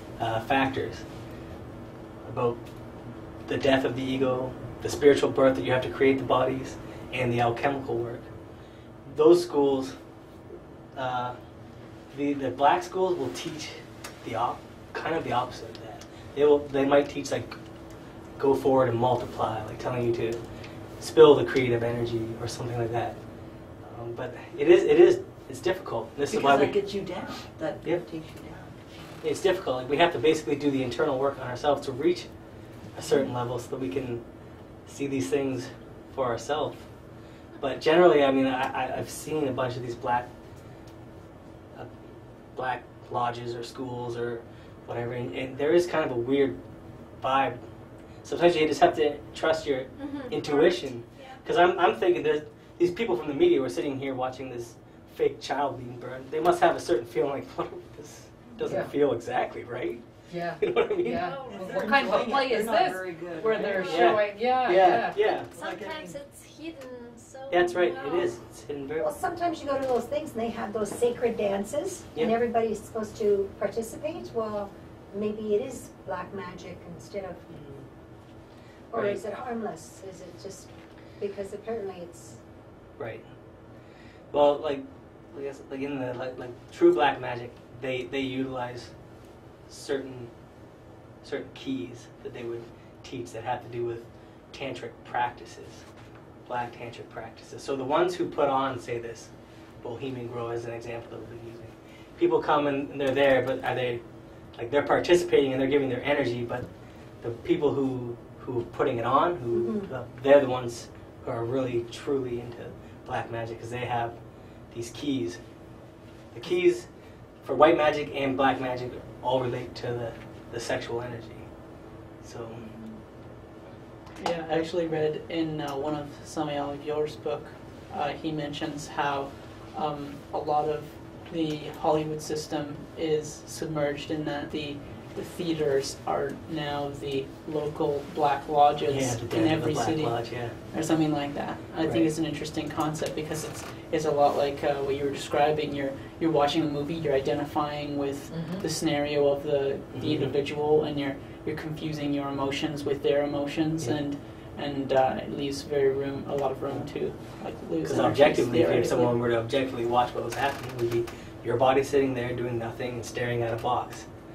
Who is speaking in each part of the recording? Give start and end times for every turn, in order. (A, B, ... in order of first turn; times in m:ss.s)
0:00.2-0:01.1 A
0:02.2-0:02.6 A
0:03.5-0:08.3 A
0:09.0-0:10.0 A
0:10.9-0:11.4 A
0:12.1-0:17.6 A
0:18.4-0:20.4 A
0:21.0-0:23.2 A
0:23.8-0:26.8 A
0:26.3-0:29.2 B
0:29.2-0:32.3 A
0:32.9-0:34.2 A
0:34.9-0:36.9 A
0:37.6-0:40.3 A
0:42.6-0:46.6 A
0:47.2-0:47.6 A
0:48.2-1:00.0 A
0:50.0-0:51.4 C
0:58.5-0:58.8 C
0:58.6-0:58.9 D
1:00.3-1:06.1 D
1:00.6-1:01.3 A
1:01.1-1:02.4 C
1:01.2-1:04.3 B
1:03.6-1:04.1 C
1:03.8-1:05.5 A
1:05.3-1:08.4 C
1:05.5-1:06.2 B
1:07.5-1:09.2 A
1:09.0-1:17.5 E
1:17.5-1:17.9 A
1:18.9-1:22.4 E
1:18.9-1:19.2 A
1:23.0-1:23.3 A
1:24.3-1:28.9 A
1:29.7-1:30.3 A
1:31.2-1:35.9 A
1:36.5-1:39.3 A
1:39.8-1:44.0 A
1:44.6-1:46.7 A
1:47.2-1:54.2 A
1:49.5-1:49.9 E
1:54.7-1:55.4 A
1:56.3-1:56.9 A
1:57.4-2:01.5 A
2:02.2-2:02.7 A
2:04.2-2:39.2 F
2:18.9-2:20.6 A
2:21.8-2:22.1 A
2:28.3-2:28.7 D
2:29.9-2:30.4 A
2:33.8-2:34.0 A
2:36.7-2:37.3 A
2:37.8-2:44.1 A